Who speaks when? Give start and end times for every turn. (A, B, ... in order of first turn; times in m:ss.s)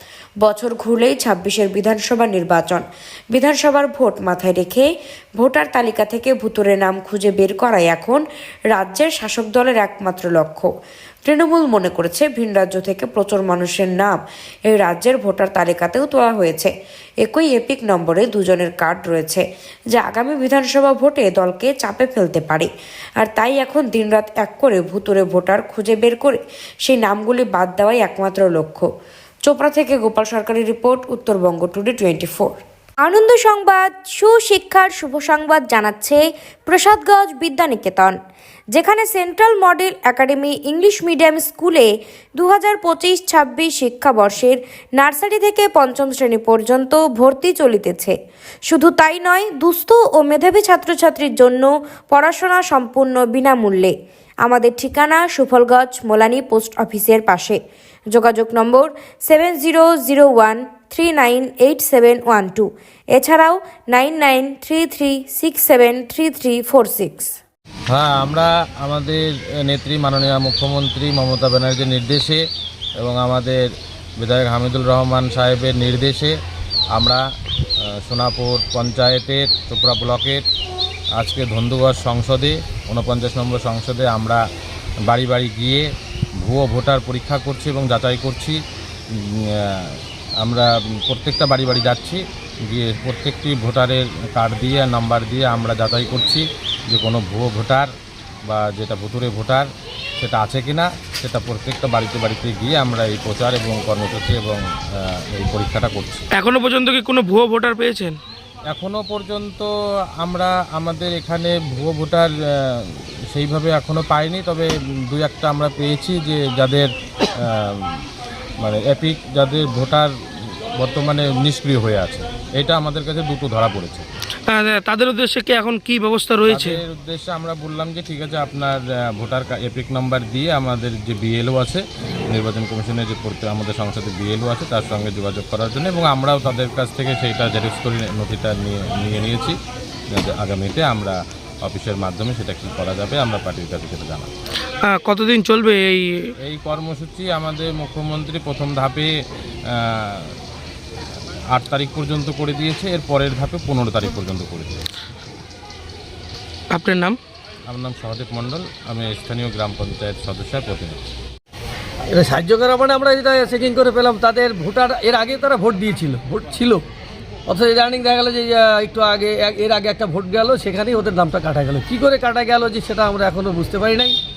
0:00.4-0:10.7 A
0:11.2-0:28.9 A
0:29.4-0:32.6 A
0:33.0-0:38.2 B
0:38.7-0:48.1 B
0:48.7-0:53.9 B
0:54.4-0:57.6 B
0:58.1-1:07.3 B
1:07.9-1:12.4 C
1:13.0-1:13.7 C
1:14.2-1:16.4 C
1:16.9-1:17.2 C
1:17.8-1:20.5 C
1:21.2-1:24.4 C
1:25.1-1:25.9 C
1:26.4-1:28.6 C
1:29.1-1:37.9 C
1:38.4-1:46.2 C
1:46.3-1:48.2 D
1:48.7-1:49.7 C
1:50.2-1:58.0 C
1:58.6-2:04.1 C
2:04.5-2:06.8 D
2:06.5-2:19.6 C
2:20.1-2:24.3 C
2:24.8-2:26.3 D
2:26.4-2:29.1 C
2:29.6-2:30.3 C
2:31.5-2:34.8 C
2:36.7-2:37.2 D
2:37.7-2:41.0 C
2:42.1-2:46.8 E
2:47.5-2:54.2 E